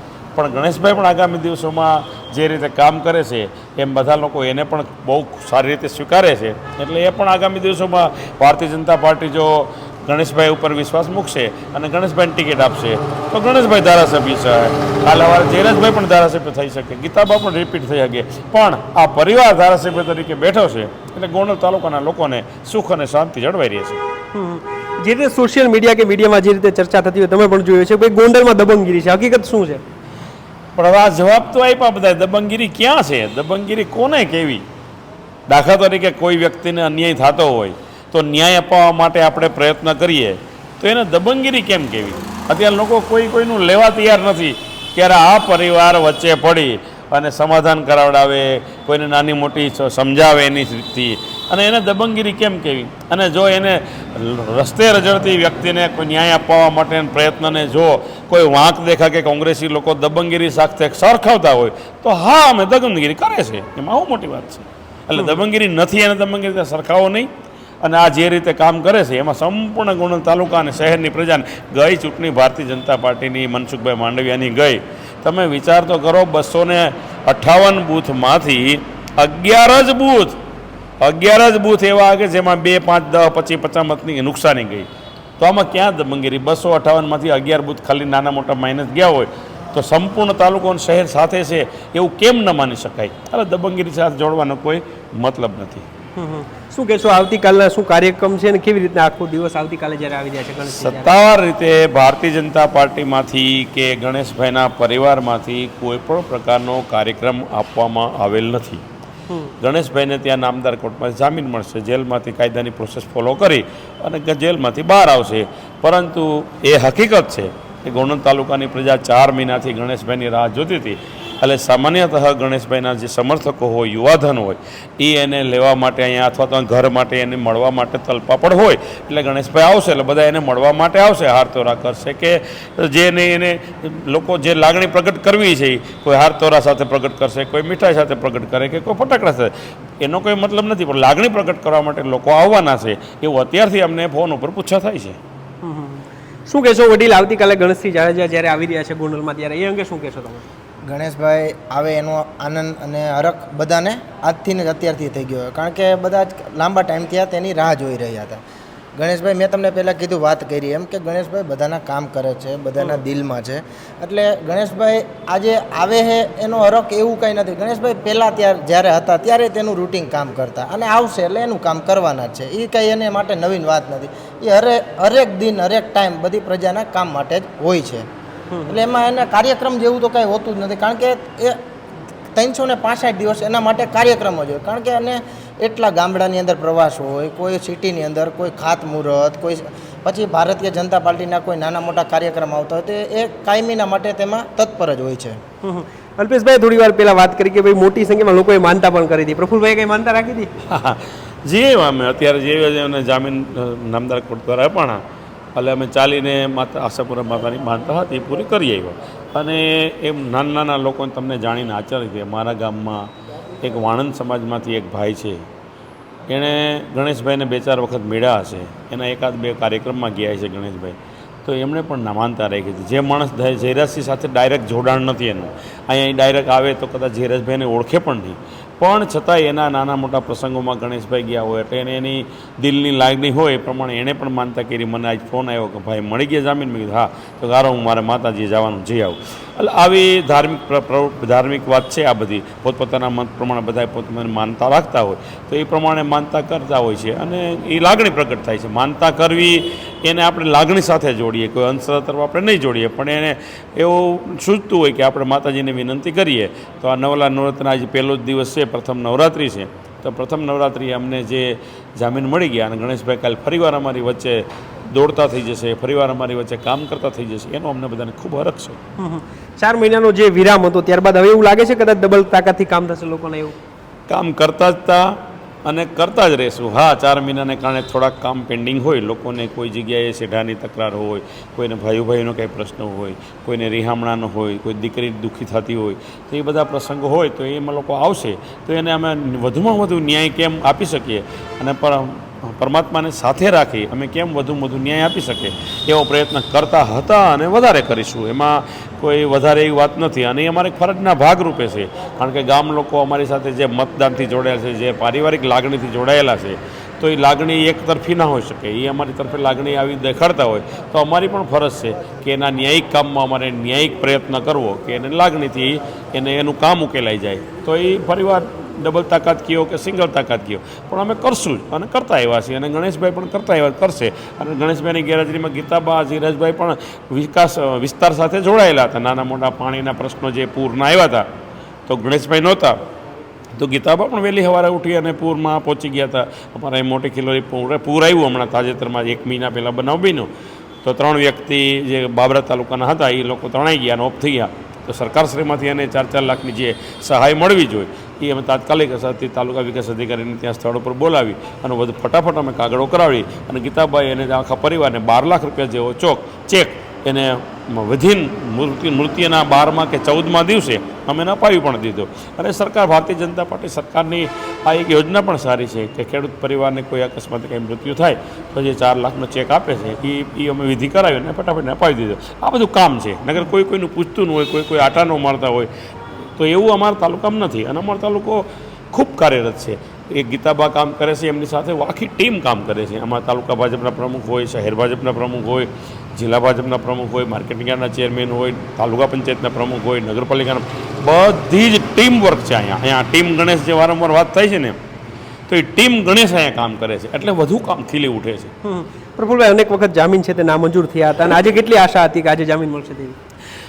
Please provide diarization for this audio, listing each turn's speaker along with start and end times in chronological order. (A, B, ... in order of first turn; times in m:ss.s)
0:00.3-0:24.0 A
0:24.3-0:29.8 B
0:30.8-0:34.6 A
0:35.5-1:07.3 A
1:05.2-1:05.4 B
1:07.8-1:20.4 A
1:21.0-1:24.9 A
1:25.4-1:35.8 A
1:36.2-1:41.1 B
1:40.7-1:48.8 A
1:49.6-2:25.2 A
2:25.6-2:30.4 B
2:30.8-2:38.4 C
2:39.0-2:58.0 C
2:58.5-2:58.8 B
2:58.7-3:01.6 C
3:02.3-3:15.4 C
3:15.6-3:20.5 B
3:20.7-3:25.0 A
3:25.5-3:33.1 A
3:33.6-3:35.4 A
3:36.3-4:28.8 A
4:29.0-4:33.6 B
4:34.1-4:35.1 A
4:35.6-5:31.2 A
5:31.9-5:32.8 A
5:33.5-5:40.3 A
5:40.8-6:15.7 A
6:16.4-6:34.8 A
6:35.5-6:38.5 A
6:38.6-6:43.2 B